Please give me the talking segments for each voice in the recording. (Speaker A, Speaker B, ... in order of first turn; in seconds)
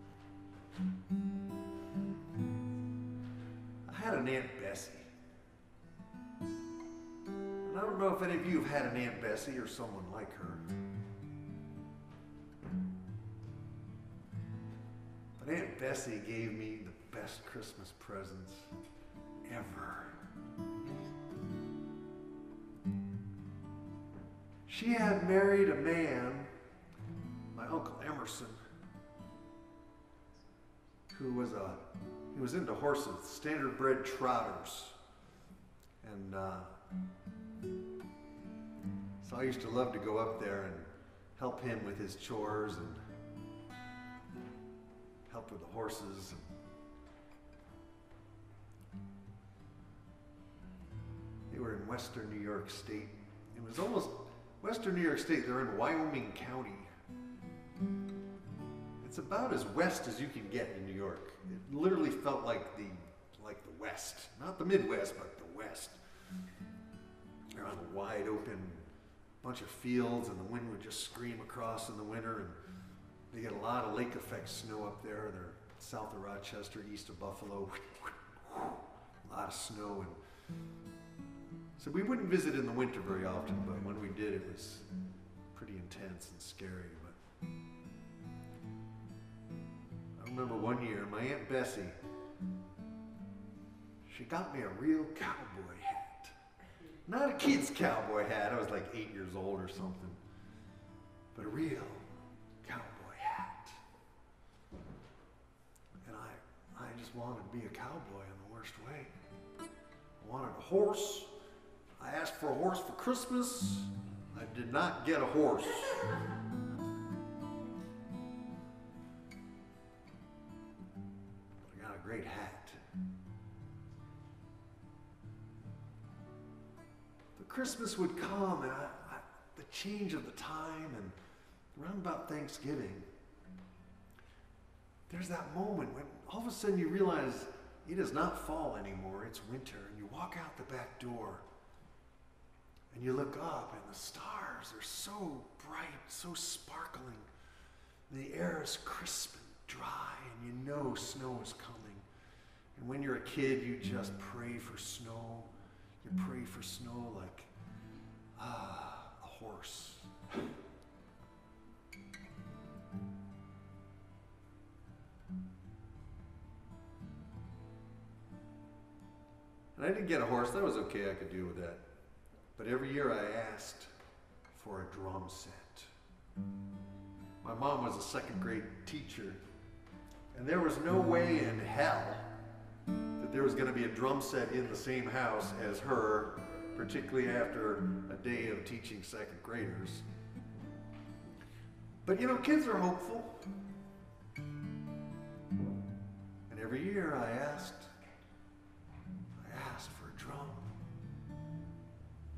Speaker A: 3.9-5.1, 7.6-10.6, 15.4-18.7, 19.5-20.2, 24.7-26.5, 27.5-28.6, 31.1-35.0, 36.0-36.7, 39.2-43.0, 45.3-46.4, 51.5-56.9, 59.0-66.0, 67.5-68.9, 69.4-72.6, 73.3-80.2, 81.8-84.9, 85.5-87.2, 90.2-92.0, 94.0-96.3, 97.0-100.2, 101.3-102.1, 102.6-103.8, 106.0-109.1, 110.2-111.3, 112.0-116.2, 121.6-122.8, 127.4-131.2, 131.7-133.1, 135.1-141.4, 142.9-147.3, 148.1-152.1, 152.8-155.5, 156.0-157.5, 158.4-160.4, 169.8-171.8, 172.6-173.9, 174.5-175.9, 177.4-179.4, 180.3-182.3, 183.2-190.1, 192.1-193.4, 196.5-197.9, 199.4-200.7